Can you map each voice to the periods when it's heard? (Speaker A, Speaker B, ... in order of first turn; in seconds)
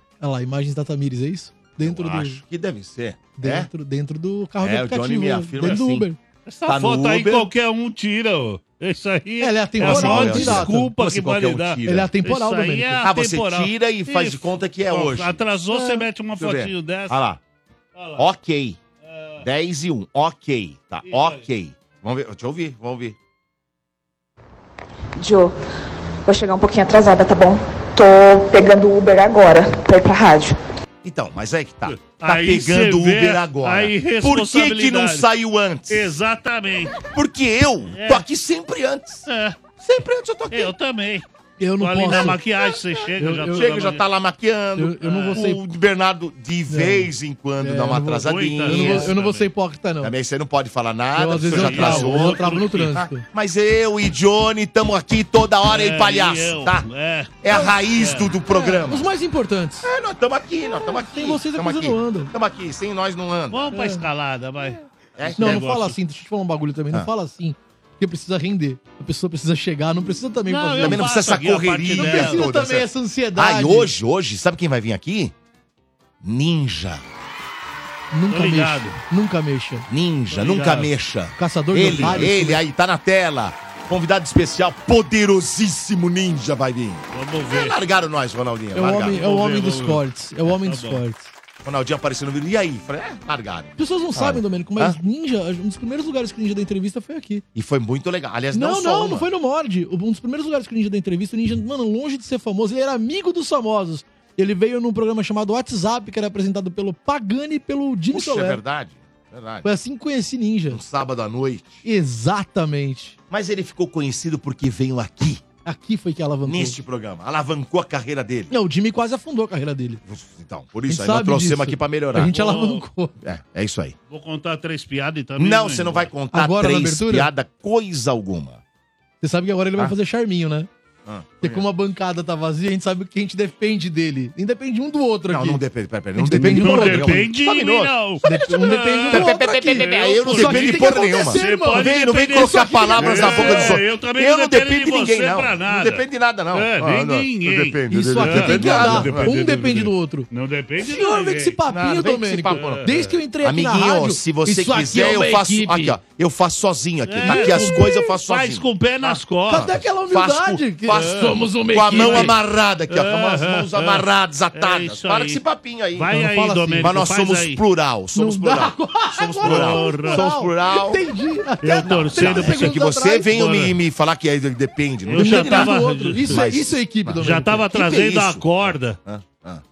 Speaker A: 0.2-2.4, 3.4-6.2, 9.4-10.9, 11.8-13.0, 15.7-16.0, 41.6-42.4, 43.2-43.7, 44.8-45.6, 46.7-50.1, 51.1-53.2, 58.5-59.9, 60.9-62.3, 63.7-64.0, 65.4-71.2, 72.0-73.9, 78.1-79.9, 81.4-82.6, 88.7-91.3, 93.8-97.4, 98.5-108.6, 109.6-110.8, 111.8-113.2, 115.6-116.8, 118.5-120.0, 120.9-123.1, 126.3-127.3, 129.2-130.7, 131.4-135.6, 136.2-137.2, 138.2-143.8, 147.9-150.3, 150.8-156.0, 157.2-157.9, 159.5-162.3, 166.1-166.9, 168.1-173.5, 175.2-177.7
Speaker B: 1.8-3.7, 4.6-6.1, 6.7-7.5, 9.8-12.1, 13.0-15.4, 16.4-17.4, 18.2-18.8, 19.4-23.1, 31.0-36.1, 37.1-39.2, 39.8-40.7, 43.5-49.1, 50.0-56.9, 57.4-59.0, 59.8-63.7, 65.2-65.7, 70.8-75.3, 76.2-77.1, 79.9-89.2, 91.6-95.0, 97.5-99.3, 108.1-109.7, 110.7-111.8, 113.3-115.4, 116.4-118.5, 120.0-122.3, 123.2-123.9, 125.4-128.6, 131.0-131.7, 135.3-149.3, 151.7-152.9, 153.4-166.2, 166.8-171.0, 172.1-179.6
Speaker C: 6.5-17.2, 17.9-18.2, 19.0-19.4, 21.0-21.4, 31.9-35.2, 35.9-37.0, 37.9-38.2, 39.3-39.6, 40.5-41.2, 41.8-44.0, 45.0-45.4, 48.2-49.5, 51.5-53.0, 55.7-58.3, 63.5-66.0, 70.5-72.5, 78.3-79.0, 80.3-80.9, 81.8-82.3, 87.1-87.8, 89.1-91.0, 122.2-122.8, 124.1-126.1, 136.3-151.6, 152.5-153.1, 157.1-159.7, 160.9-162.4, 162.9-165.4, 165.9-167.6, 169.4-170.2, 171.6-173.7, 175.1-176.6, 177.2-179.0
Speaker D: 25.2-25.6, 26.2-30.6